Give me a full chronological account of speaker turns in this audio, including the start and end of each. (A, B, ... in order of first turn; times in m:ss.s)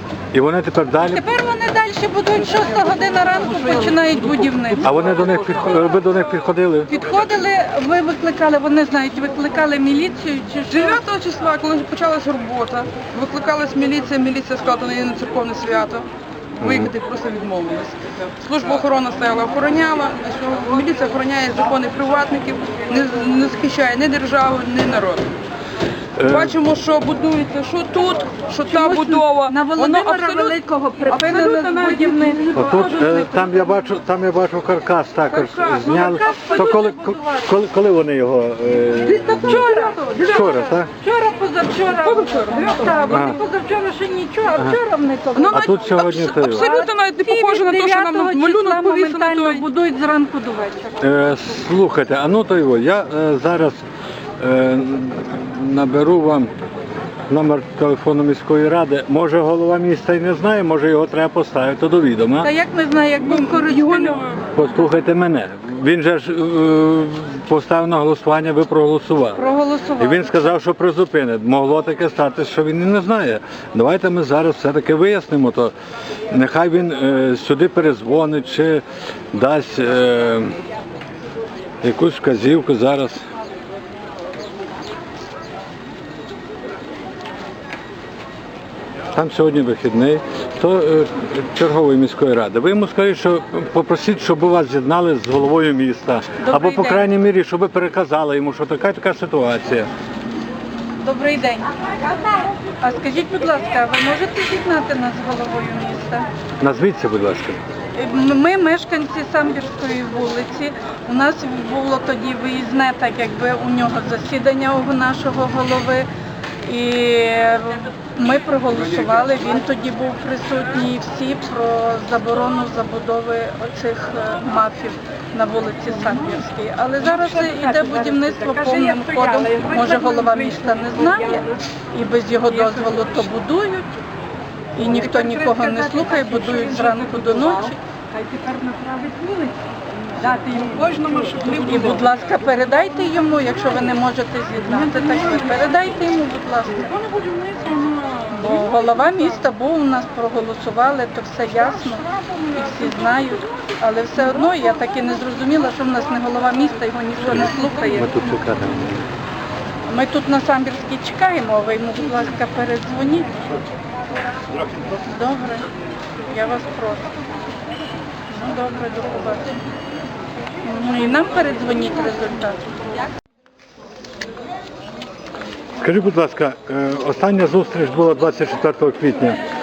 0:00.3-0:01.2 A
0:01.0-0:04.9 B
0:04.8-0:06.9 A
0:04.9-0:05.3 C
0:06.9-0:11.0 B
0:10.7-0:16.1 C
0:16.6-0:16.9 A
0:16.6-0:25.3 C
0:26.2-0:26.5 A
0:26.2-0:33.7 C
0:28.6-0:33.2 B
0:32.5-0:39.6 A
0:35.3-0:37.2 C
0:35.7-0:37.4 B
0:39.0-0:45.8 B
0:39.2-0:40.6 C
0:40.2-0:40.9 A
0:41.8-0:43.4 C
0:43.1-0:43.4 A
0:45.3-0:49.7 C
0:45.5-0:46.7 A
0:46.3-0:50.9 B
0:51.0-0:53.8 A
0:54.4-0:56.5 A
0:57.3-1:02.5 A
1:02.4-1:04.2 B
1:03.3-1:04.5 C
1:04.5-1:09.4 A
1:09.4-1:10.3 B
1:10.0-1:15.7 A
1:16.3-1:20.5 A
1:21.8-1:23.2 A
1:29.1-1:39.9 A
1:36.4-1:37.1 B
1:41.0-1:46.3 B
1:46.6-1:47.6 A
1:48.0-1:56.1 B
1:56.6-2:13.9 B
2:07.0-2:08.0 C
2:07.6-2:11.4 D
2:08.6-2:09.4 C
2:12.5-2:13.2 C
2:14.8-2:17.8 B
2:15.1-2:17.7 C
2:18.1-2:19.6 D
2:20.2-2:22.1 C
2:20.2-2:21.0 D
2:20.3-2:20.6 B
2:21.6-2:26.9 B
2:24.8-2:25.6 C
2:26.8-2:29.0 C
2:28.3-2:38.2 B
2:31.6-2:33.3 C
2:37.2-2:39.1 A
2:39.9-2:43.3 B
2:45.0-2:45.7 B
2:46.3-2:47.1 B
2:48.3-2:49.6 B
2:50.6-2:52.7 B
2:55.8-2:59.4 A